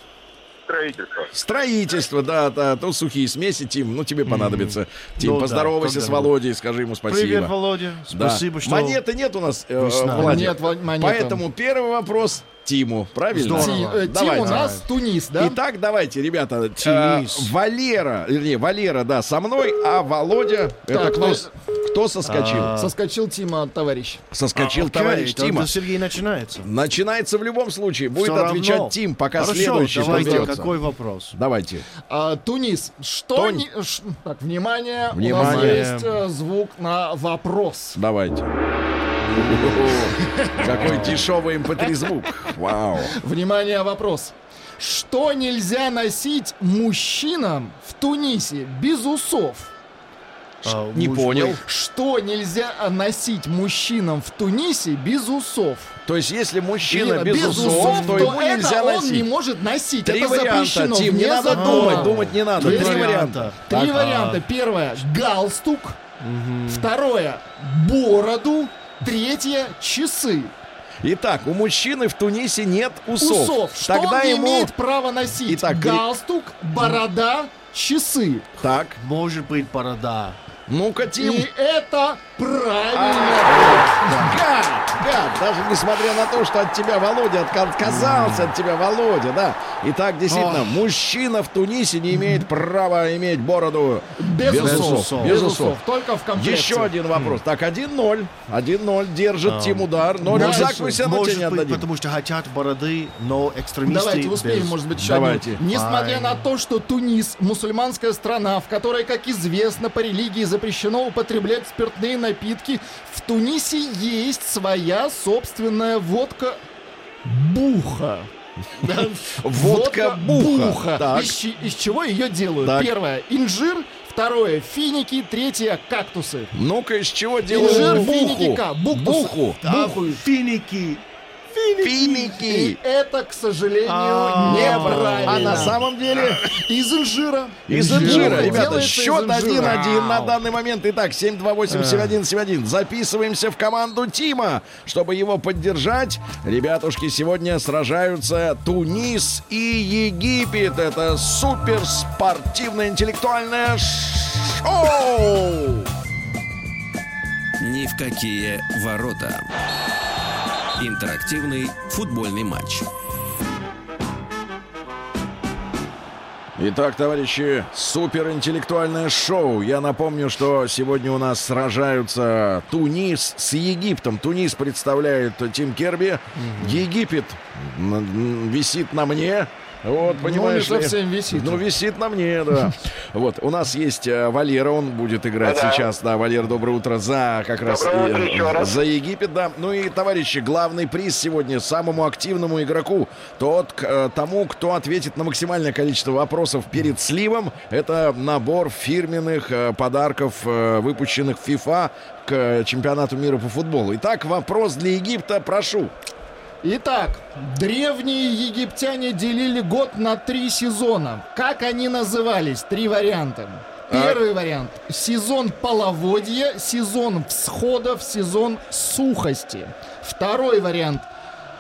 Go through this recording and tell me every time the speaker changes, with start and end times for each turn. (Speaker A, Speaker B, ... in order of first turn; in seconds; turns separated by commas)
Speaker A: 0.7-1.3, Speaker B: 1.3-7.5, Speaker C: 4.3-6.3, Speaker C: 7.1-9.0, Speaker B: 8.1-14.7, Speaker C: 9.8-10.6, Speaker D: 10.1-11.4, Speaker C: 13.3-14.9, Speaker D: 13.6-15.6, Speaker B: 15.4-22.7, Speaker C: 16.8-17.5, Speaker D: 20.9-21.5, Speaker C: 22.2-22.9, Speaker D: 22.7-24.2, Speaker B: 24.3-25.8, Speaker C: 24.6-26.7, Speaker B: 26.6-30.8, Speaker C: 28.2-31.4, Speaker D: 30.0-30.5, Speaker B: 31.3-31.9, Speaker D: 32.1-38.0, Speaker B: 33.4-33.7, Speaker B: 35.1-35.9, Speaker C: 35.4-36.2, Speaker B: 38.0-38.5, Speaker C: 39.2-40.0, Speaker B: 39.4-43.1, Speaker D: 40.2-41.2, Speaker C: 40.6-41.3, Speaker D: 41.8-42.5, Speaker D: 43.0-49.7, Speaker C: 50.6-51.6, Speaker B: 50.7-51.6, Speaker D: 51.6-56.0, Speaker B: 56.1-59.3, Speaker D: 56.9-66.0, Speaker C: 57.4-58.3, Speaker B: 60.0-63.6, Speaker C: 61.5-64.4, Speaker C: 66.2-66.9, Speaker D: 66.7-70.5, Speaker B: 71.0-74.7, Speaker D: 73.2-78.5, Speaker B: 75.5-76.1, Speaker B: 78.6-79.0, Speaker C: 79.0-80.4, Speaker B: 80.7-81.5, Speaker D: 81.2-84.4, Speaker B: 82.9-95.8, Speaker C: 83.6-84.3, Speaker C: 87.9-88.5, Speaker C: 90.3-90.7, Speaker D: 94.2-97.0, Speaker C: 94.5-95.4, Speaker B: 96.3-101.9, Speaker C: 99.5-104.8, Speaker D: 100.3-101.0, Speaker D: 103.9-116.6, Speaker B: 105.0-105.6, Speaker C: 105.6-106.5, Speaker D: 117.2-118.3, Speaker B: 118.8-121.4, Speaker D: 119.5-126.5, Speaker B: 122.6-122.9, Speaker B: 126.5-129.6, Speaker D: 127.5-130.2, Speaker C: 127.5-128.1, Speaker C: 129.6-132.3, Speaker B: 131.8-132.8, Speaker D: 132.3-135.8, Speaker C: 133.8-135.8, Speaker B: 135.2-136.5, Speaker D: 136.4-139.8, Speaker B: 137.7-155.9, Speaker C: 137.7-138.8, Speaker C: 139.6-140.4, Speaker C: 141.7-142.2, Speaker E: 157.6-159.5, Speaker E: 160.8-162.9, Speaker B: 166.6-205.9, Speaker C: 176.4-176.8, Speaker D: 180.0-181.6, Speaker A: 185.4-185.8, Speaker A: 187.6-188.8, Speaker D: 206.6-221.1, Speaker B: 213.9-214.2